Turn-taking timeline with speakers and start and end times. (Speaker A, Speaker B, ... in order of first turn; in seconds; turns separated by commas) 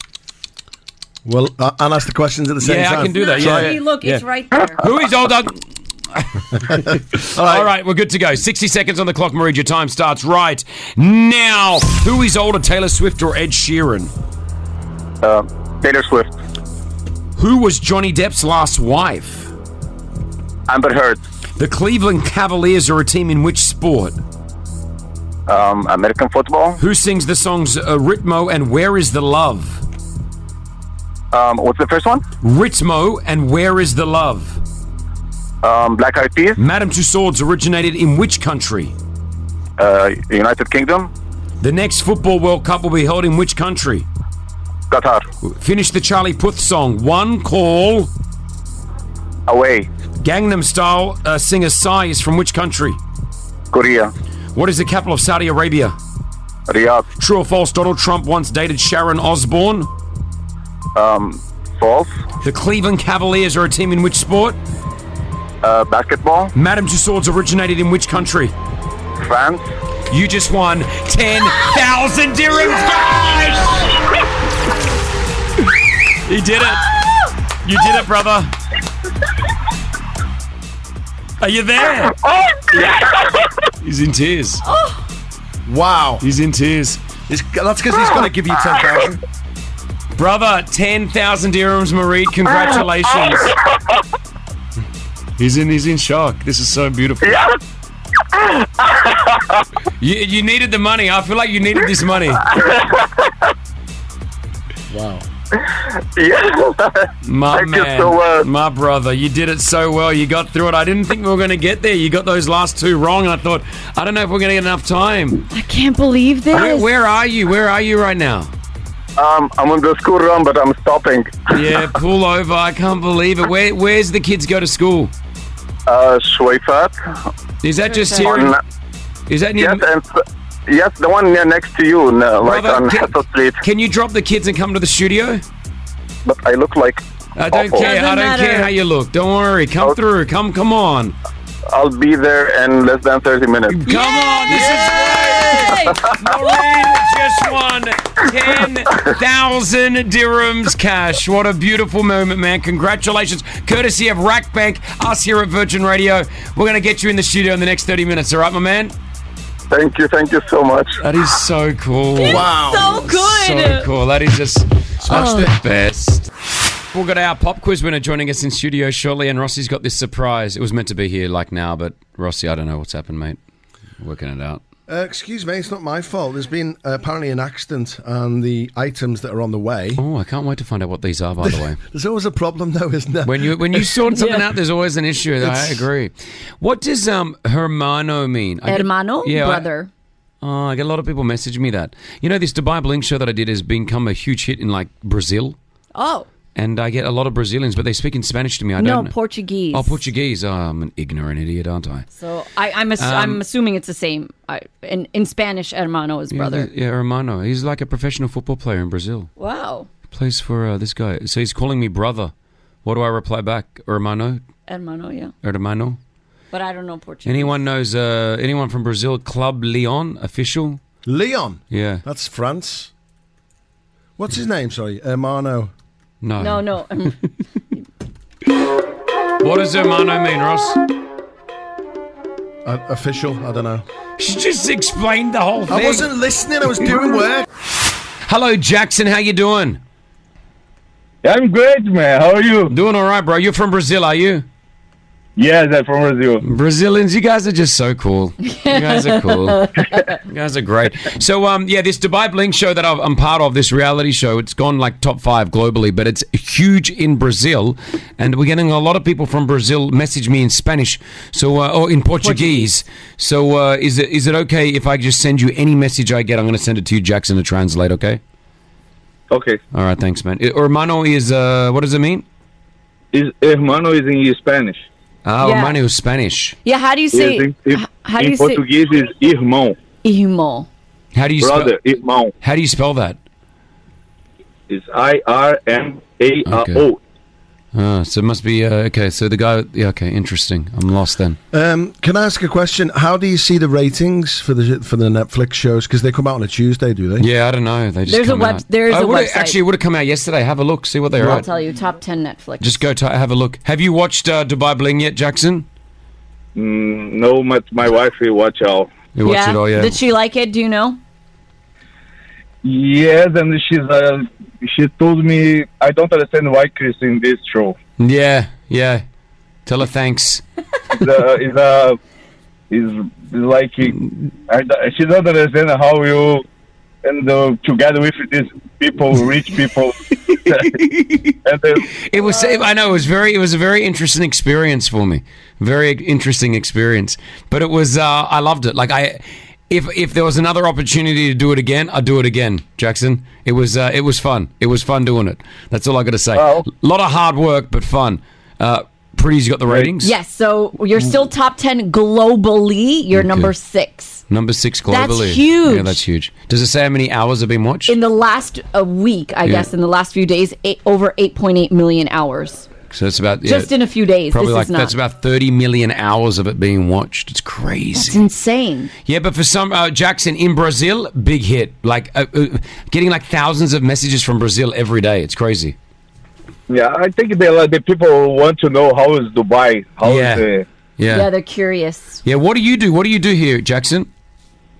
Speaker A: 1.2-3.8, Speaker B: 2.6-4.2, Speaker C: 3.1-4.8, Speaker B: 4.8-14.1, Speaker A: 6.7-7.7, Speaker D: 15.2-16.3, Speaker B: 17.4-19.5, Speaker D: 20.7-21.2, Speaker B: 21.6-24.1, Speaker D: 25.5-26.8, Speaker B: 26.8-29.8, Speaker D: 31.3-32.2, Speaker B: 32.4-34.6, Speaker D: 35.6-36.6, Speaker B: 36.6-38.9, Speaker D: 39.8-41.1, Speaker B: 41.6-44.0, Speaker D: 44.9-45.2, Speaker B: 45.4-48.1, Speaker D: 49.5-49.9, Speaker B: 50.2-53.0, Speaker D: 53.7-54.1, Speaker B: 54.5-56.0, Speaker D: 56.7-57.0, Speaker B: 57.2-59.9, Speaker D: 60.9-62.2, Speaker B: 62.4-64.6, Speaker D: 65.6-66.5, Speaker B: 66.5-68.5, Speaker D: 69.2-69.7, Speaker B: 70.1-73.9, Speaker B: 76.2-77.0, Speaker B: 77.6-78.5, Speaker B: 81.4-82.1, Speaker D: 82.2-83.3, Speaker B: 83.8-84.6, Speaker C: 84.6-85.0, Speaker A: 85.7-86.2, Speaker B: 86.2-87.0, Speaker A: 87.3-89.2, Speaker B: 90.2-93.5, Speaker B: 95.4-97.4, Speaker D: 97.2-97.5, Speaker D: 98.3-99.6, Speaker B: 100.0-102.4, Speaker D: 102.4-103.3, Speaker A: 104.9-105.2, Speaker D: 106.2-108.5, Speaker B: 107.2-115.4, Speaker C: 115.5-116.9, Speaker B: 116.5-118.5, Speaker D: 119.2-121.4, Speaker B: 121.5-125.1, Speaker D: 125.9-126.9, Speaker B: 127.6-128.6, Speaker C: 127.9-128.3, Speaker D: 128.2-128.6, Speaker B: 129.3-129.9, Speaker D: 129.6-133.6, Speaker B: 132.4-135.4, Speaker D: 136.2-137.9, Speaker B: 137.3-141.2, Speaker C: 137.8-138.7, Speaker D: 141.7-143.8, Speaker B: 143.7-158.9, Speaker C: 143.9-146.2, Speaker D: 159.7-160.9, Speaker B: 161.0-166.3, Speaker C: 162.2-163.8, Speaker A: 162.2-163.0, Speaker A: 165.0-165.5, Speaker C: 165.1-165.4, Speaker B: 166.9-173.4, Speaker B: 174.0-174.6, Speaker A: 174.9-180.0, Speaker B: 180.0-181.8, Speaker A: 181.4-183.9, Speaker B: 183.2-189.7, Speaker C: 184.1-184.4, Speaker A: 185.4-185.8, Speaker C: 188.7-189.9, Speaker B: 190.4-195.6, Speaker C: 195.9-196.3, Speaker B: 196.5-199.1, Speaker C: 198.8-200.0, Speaker B: 199.7-202.1, Speaker C: 202.2-206.7, Speaker B: 203.0-203.4, Speaker B: 206.3-209.3, Speaker C: 209.4-209.9, Speaker B: 210.1-212.3, Speaker B: 212.8-214.4, Speaker C: 214.7-215.3, Speaker B: 215.4-216.0, Speaker C: 216.5-217.5, Speaker B: 217.2-220.8, Speaker A: 221.1-222.9, Speaker B: 221.7-222.0, Speaker A: 224.2-225.7, Speaker B: 226.2-226.8, Speaker C: 226.4-227.2, Speaker B: 229.4-230.8, Speaker A: 232.6-233.8, Speaker B: 234.2-236.1, Speaker A: 235.7-237.4, Speaker B: 238.3-239.8, Speaker E: 241.2-242.7, Speaker B: 242.7-244.4, Speaker E: 245.4-246.4, Speaker B: 246.4-249.7, Speaker C: 248.4-250.1, Speaker B: 250.3-268.2, Speaker C: 262.2-262.7, Speaker E: 269.3-269.6, Speaker B: 269.7-272.2, Speaker E: 273.1-274.8, Speaker B: 275.2-276.6, Speaker C: 275.4-275.8, Speaker C: 276.6-278.6, Speaker E: 277.1-279.8, Speaker C: 280.0-280.7, Speaker B: 281.1-281.7, Speaker E: 281.4-282.3, Speaker B: 282.4-283.2, Speaker E: 284.7-287.0, Speaker B: 286.4-286.8, Speaker B: 287.7-291.4, Speaker A: 291.5-297.2, Speaker B: 297.2-301.5, Speaker C: 298.1-299.6, Speaker C: 301.2-302.8, Speaker B: 302.6-305.6, Speaker E: 306.5-308.9, Speaker B: 309.1-309.9, Speaker C: 309.2-311.0, Speaker E: 312.6-317.8, Speaker B: 318.0-319.0, Speaker B: 319.6-320.4, Speaker E: 320.9-322.0, Speaker E: 322.7-326.4, Speaker E: 327.0-330.8, Speaker E: 331.4-331.9, Speaker B: 331.9-350.1, Speaker E: 346.4-346.7, Speaker C: 350.0-354.2, Speaker B: 353.1-353.5, Speaker B: 354.3-357.9, Speaker C: 354.9-356.0, Speaker C: 357.9-362.7, Speaker B: 359.4-359.7, Speaker B: 362.9-363.7, Speaker C: 363.4-364.9, Speaker B: 364.3-368.2, Speaker C: 367.9-368.9, Speaker B: 369.1-375.7, Speaker E: 376.7-380.6, Speaker B: 380.0-380.4, Speaker B: 381.0-381.3, Speaker C: 381.1-382.2, Speaker B: 382.2-384.1